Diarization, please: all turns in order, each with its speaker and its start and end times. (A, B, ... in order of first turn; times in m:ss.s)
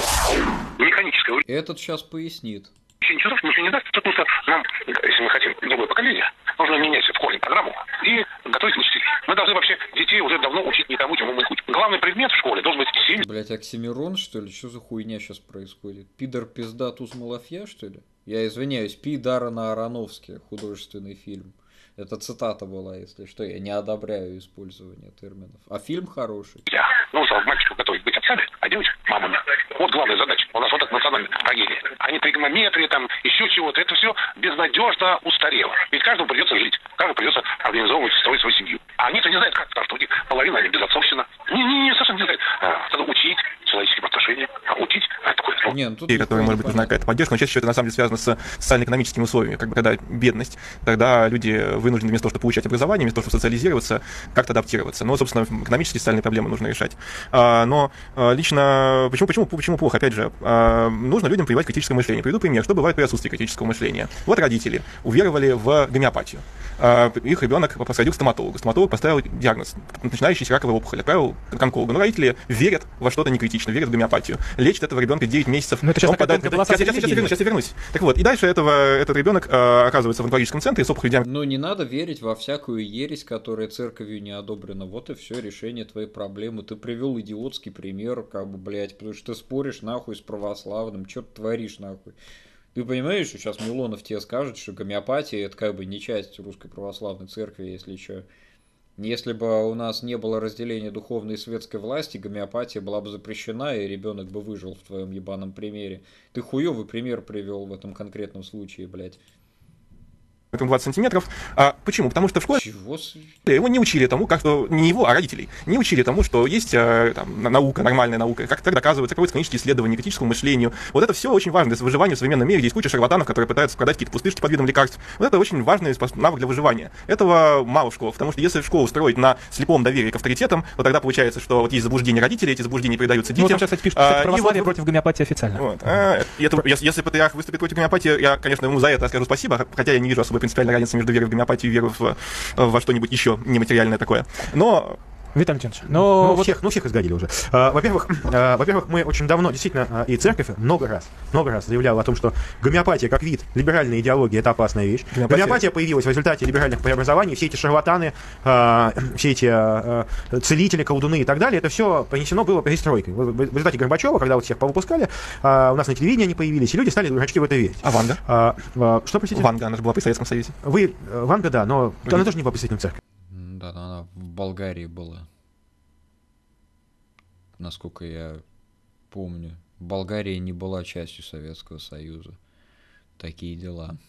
0:00.8-0:01.4 A
0:01.4-0:02.7 B
0:03.0-0:13.2 A
0:13.2-0:26.7 B
0:26.7-0:45.7 A
0:45.7-0:46.9 B
0:46.1-1:21.2 C
1:15.8-1:17.3 D
1:21.2-1:32.2 B
1:32.7-1:38.3 B
1:39.0-1:49.2 B
1:50.5-1:52.6 C
1:52.6-1:53.4 B
1:53.5-2:14.8 C
2:13.4-2:15.6 D
2:15.6-2:25.0 C
2:25.4-2:26.5 D
2:26.0-2:49.5 E
2:35.1-2:35.6 C
2:47.8-2:48.2 C
2:49.3-2:50.6 C
2:50.6-2:53.0 E
2:53.3-2:55.3 B
2:57.6-2:58.4 B
2:59.1-3:02.4 B
3:03.2-3:04.0 B